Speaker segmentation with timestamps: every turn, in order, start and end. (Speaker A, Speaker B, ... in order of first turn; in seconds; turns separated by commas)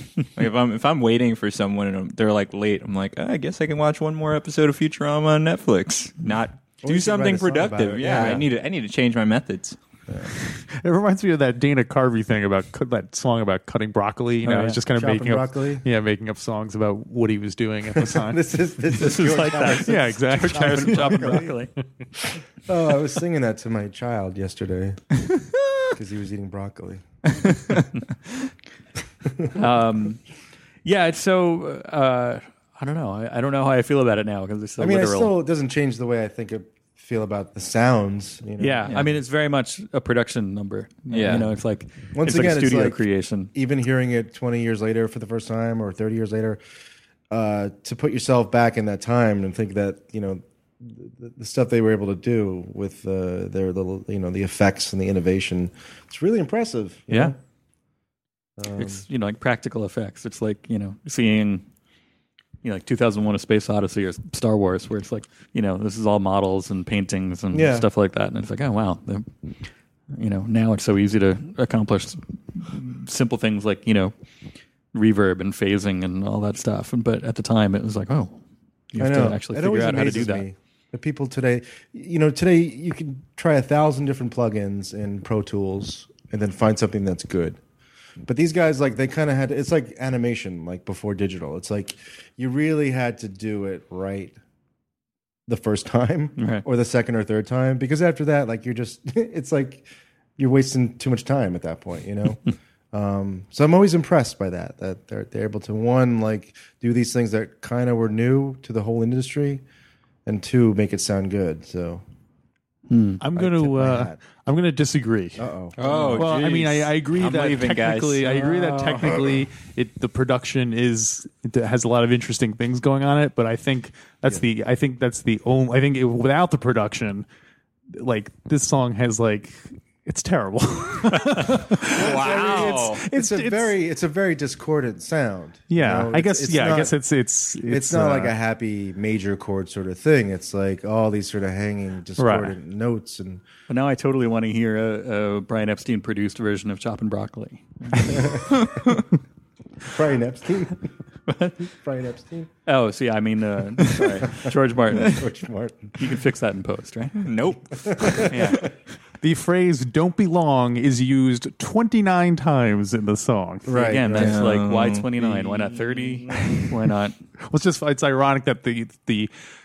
Speaker A: 0.3-9.8, Speaker B: 6.8-8.5, Speaker C: 10.4-18.4, Speaker B: 14.4-15.8, Speaker B: 17.9-21.6, Speaker D: 18.9-21.7, Speaker C: 19.6-21.5, Speaker B: 22.7-25.0, Speaker B: 25.9-27.0, Speaker D: 29.6-30.2, Speaker D: 30.9-35.4, Speaker B: 34.8-38.9, Speaker D: 38.6-43.5, Speaker A: 41.1-41.5, Speaker B: 42.1-46.6, Speaker B: 47.3-57.4, Speaker B: 58.6-59.1, Speaker D: 58.8-61.6, Speaker D: 62.6-69.3, Speaker B: 67.5-67.9, Speaker D: 70.2-74.1, Speaker D: 74.9-78.4, Speaker D: 78.9-80.5, Speaker B: 79.0-87.6, Speaker B: 88.2-94.4, Speaker B: 95.5-99.9, Speaker D: 96.4-96.6, Speaker B: 100.4-109.6, Speaker B: 110.3-112.0, Speaker D: 112.9-113.2, Speaker C: 113.2-115.5, Speaker B: 113.3-114.2, Speaker B: 115.4-116.3, Speaker A: 115.8-119.4, Speaker C: 116.1-127.3, Speaker C: 127.9-133.8, Speaker B: 131.8-137.0, Speaker A: 132.0-133.0, Speaker C: 135.7-138.3, Speaker B: 137.7-143.4, Speaker C: 142.2-142.6, Speaker D: 143.7-148.9, Speaker B: 148.1-148.7, Speaker B: 149.9-150.9, Speaker D: 151.3-151.6, Speaker B: 151.7-152.5, Speaker D: 152.7-155.3, Speaker B: 154.2-156.0, Speaker D: 156.0-157.2, Speaker A: 157.2-158.4, Speaker B: 157.7-158.6, Speaker D: 158.2-158.7, Speaker C: 159.2-163.9, Speaker B: 163.7-164.5, Speaker D: 163.7-167.2, Speaker A: 164.1-165.1, Speaker C: 167.4-169.3